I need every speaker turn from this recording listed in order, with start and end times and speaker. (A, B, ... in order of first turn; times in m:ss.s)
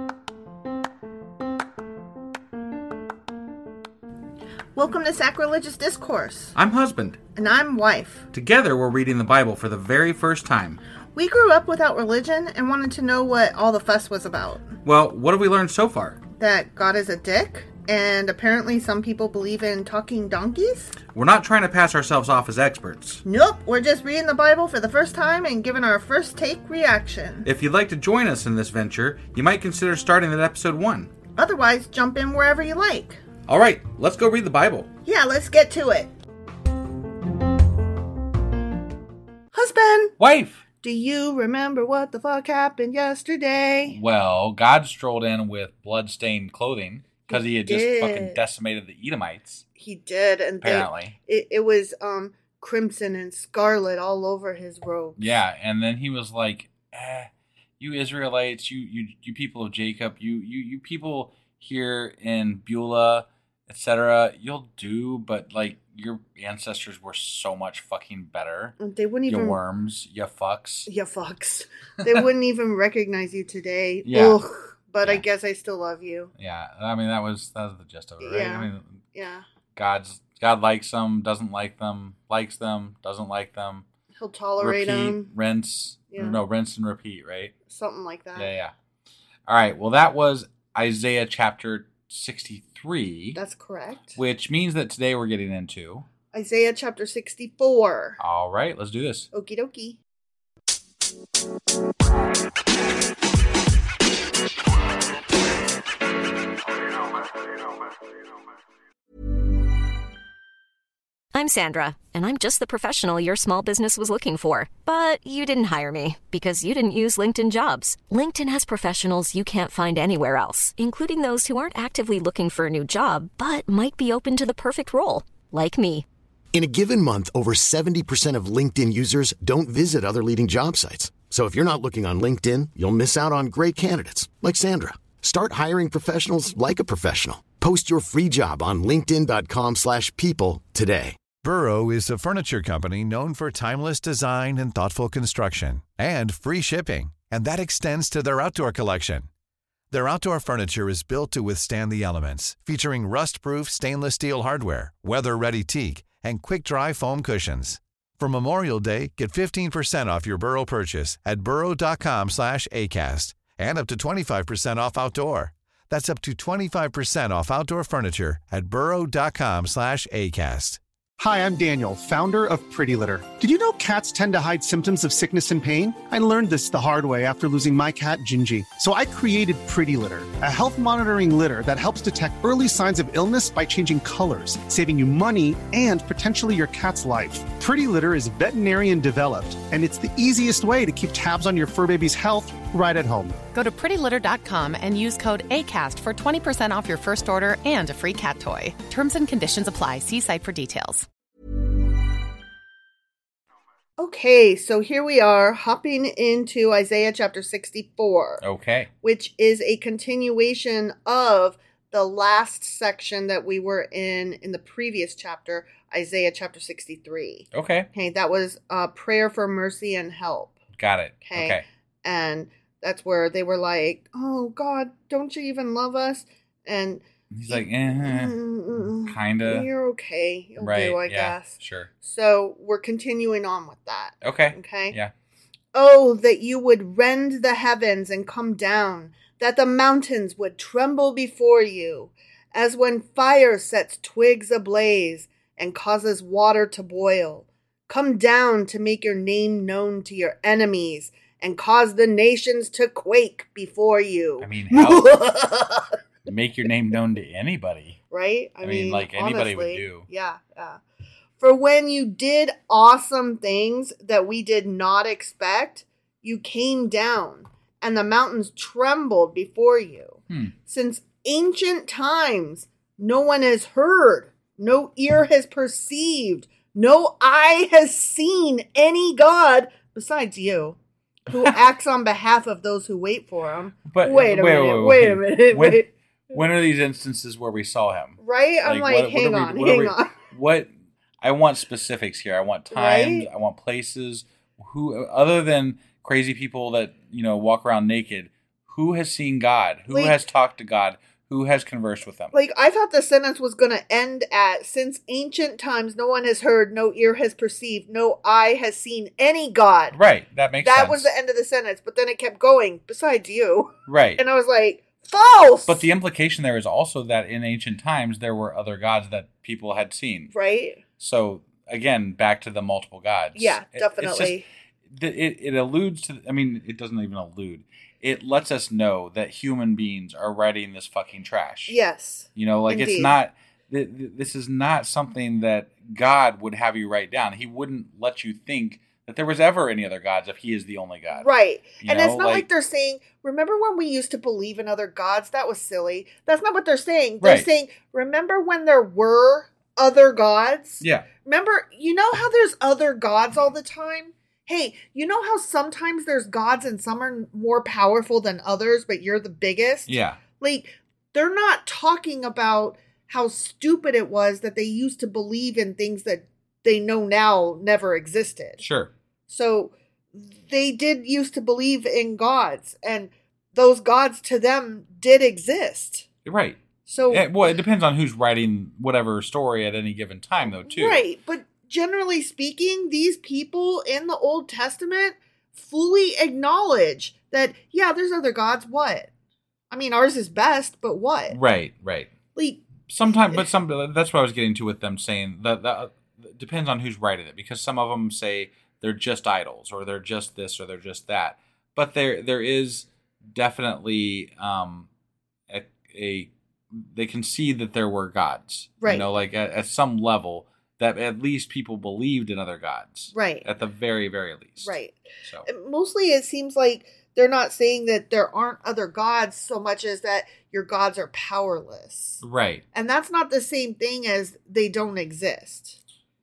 0:04.7-0:06.5 A
0:06.5-0:07.2 B
0:07.4-0:08.2 A
0:08.3-0:10.8 B
0:11.1-0:14.7 A
0:14.8-0:16.2 B
0:16.4-0:20.9 A
0:21.1-0:23.2 B
0:23.2-0:27.5 A
0:27.4-0:31.1 B
0:31.4-0:33.2 A
0:33.5-0:34.9 B
0:35.0-0:36.1 A
0:39.5-0:40.1 A
0:40.2-0:40.6 B
0:40.8-0:44.0 A
0:43.9-0:49.6 B
0:47.3-0:48.4 A
0:49.8-0:55.3 A
0:50.6-0:51.1 B
0:55.2-0:57.3 B
0:57.8-1:10.9 B
1:08.8-1:09.6 A
1:10.9-1:16.3 A
1:14.0-1:14.4 B
1:16.4-1:18.9 B
1:18.2-1:19.4 A
1:19.8-1:23.8 B
1:24.2-1:25.3 A
1:24.6-1:27.5 B
1:26.1-1:26.4 A
1:27.7-1:28.5 A
1:28.4-1:28.7 B
1:29.5-1:33.4 B
1:33.3-1:34.2 A
1:34.2-1:36.0 B
1:36.3-1:38.2 A
1:38.2-1:39.3 B
1:39.3-1:40.0 A
1:51.3-2:06.0 C
2:06.5-2:21.2 D
2:21.4-2:29.3 E
2:29.9-2:50.8 E
2:51.2-3:13.3 F
3:13.5-3:21.1 G
3:24.0-3:28.4 A
3:28.4-3:28.9 B
3:29.0-3:40.6 A
3:37.5-3:37.9 B
3:40.7-3:41.6 B
3:41.2-3:55.0 A
3:47.3-3:48.4 B
3:49.0-3:49.7 B
3:50.6-3:51.9 B
3:54.2-3:55.1 B
3:55.7-4:15.9 A
4:14.4-4:15.1 B
4:16.2-4:18.0 B
4:18.1-4:20.8 A
4:18.6-4:20.1 B
4:21.4-4:40.8 A
4:41.3-4:45.9 A
4:43.9-4:50.7 B
4:48.2-4:50.1 A
4:51.2-5:02.3 B
4:52.7-4:53.3 A
4:59.9-5:00.2 A
5:02.3-5:10.0 A
5:09.9-5:11.1 B
5:10.6-5:15.9 A
5:13.9-5:14.2 B
5:15.6-5:20.3 B
5:20.3-5:20.8 A
5:21.0-5:24.4 B
5:23.3-5:24.4 A
5:24.9-5:31.8 B
5:31.7-5:33.2 A
5:32.3-5:41.3 B
5:41.2-6:08.6 A
5:41.8-5:42.5 B
5:47.2-5:47.5 B
5:50.8-5:51.0 B
5:59.9-6:00.2 B
6:08.6-6:08.9 B
6:09.3-6:16.1 A
6:16.2-6:21.0 B
6:16.9-6:17.6 A
6:20.5-6:29.1 A
6:29.7-6:31.4 A
6:31.3-6:32.1 B
6:32.3-6:33.5 A
6:32.9-6:44.9 B
6:45.5-6:55.5 B
6:48.8-6:49.1 A
6:53.1-6:53.4 A
6:54.6-7:02.2 A
7:02.2-7:02.6 B
7:02.7-7:05.8 A